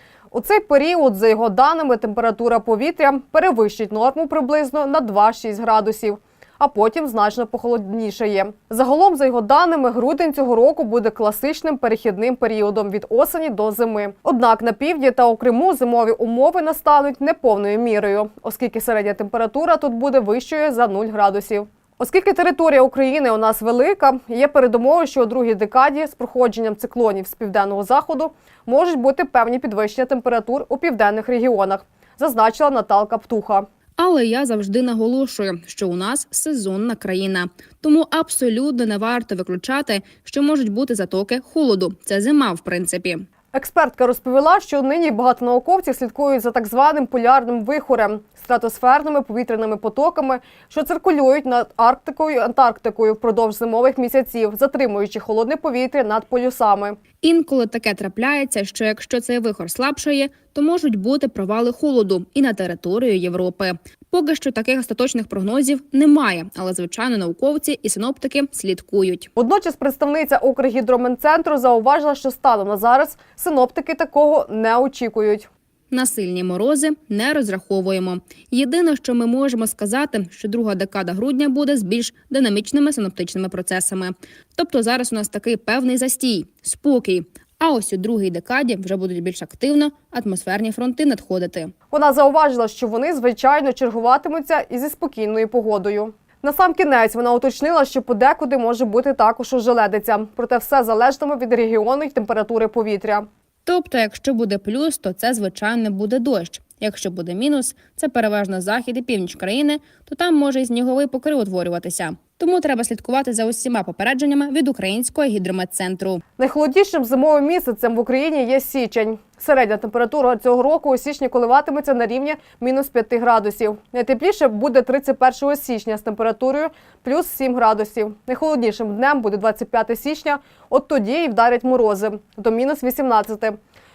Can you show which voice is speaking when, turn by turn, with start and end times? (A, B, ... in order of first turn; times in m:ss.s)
0:00.3-0:33.6 A
0:34.0-0:43.2 B
0:43.5-0:57.0 A
0:57.2-1:09.3 B
1:09.4-1:15.5 A
1:15.9-1:31.7 B
1:31.9-1:43.2 A
1:43.7-1:56.2 B
1:56.4-2:13.6 A